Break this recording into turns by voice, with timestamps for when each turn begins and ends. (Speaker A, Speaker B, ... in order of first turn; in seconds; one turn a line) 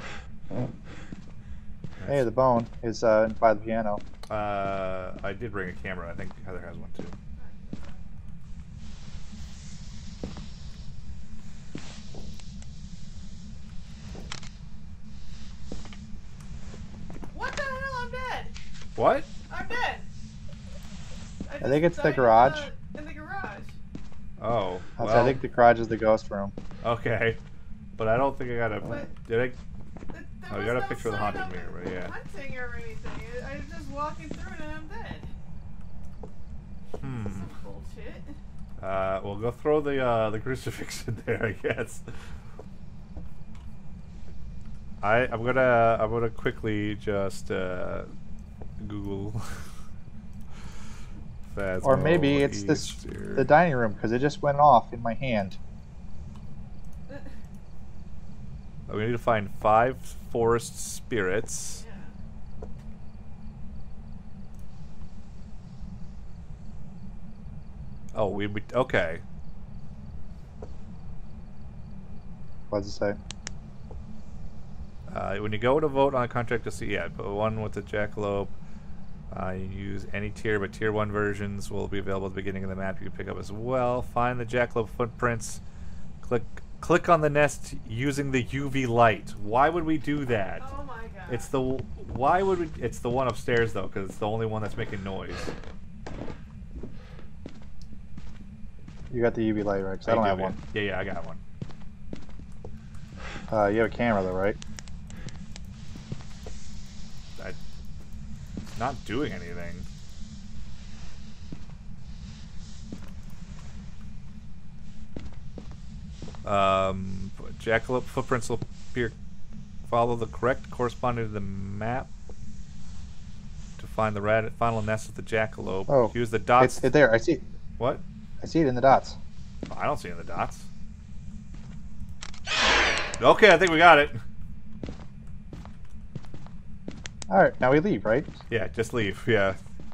Speaker A: 2.0-2.3
Speaker B: 2.1-4.0
Speaker A: 4.3-7.2
Speaker C: 7.4-8.2
Speaker C: 17.3-18.5
Speaker A: 19.0-19.3
Speaker C: 19.5-20.1
Speaker C: 21.4-23.8
Speaker B: 21.6-22.7
Speaker A: 24.4-25.4
Speaker B: 25.0-26.5
Speaker A: 26.8-27.4
Speaker A: 28.0-29.6
Speaker C: 28.9-29.1
Speaker C: 30.1-35.3
Speaker A: 30.5-32.1
Speaker A: 37.0-37.5
Speaker C: 37.1-38.4
Speaker A: 38.8-42.1
Speaker A: 45.0-48.1
Speaker A: 48.8-49.6
Speaker A: 51.5-53.5
Speaker B: 51.8-55.6
Speaker A: 58.9-61.8
Speaker C: 61.7-62.2
Speaker A: 68.1-69.2
Speaker B: 72.7-73.2
Speaker A: 75.1-78.5
Speaker A: 79.3-85.6
Speaker A: 86.2-90.6
Speaker C: 90.6-91.5
Speaker A: 91.3-95.5
Speaker B: 99.1-100.6
Speaker A: 100.0-101.4
Speaker B: 103.5-104.6
Speaker A: 108.8-109.9
Speaker A: 116.5-119.2
Speaker A: 119.9-122.1
Speaker A: 123.8-126.9
Speaker B: 125.9-127.4
Speaker B: 128.4-129.2
Speaker A: 129.7-130.7
Speaker A: 133.2-134.2
Speaker B: 137.3-138.4
Speaker A: 138.5-139.6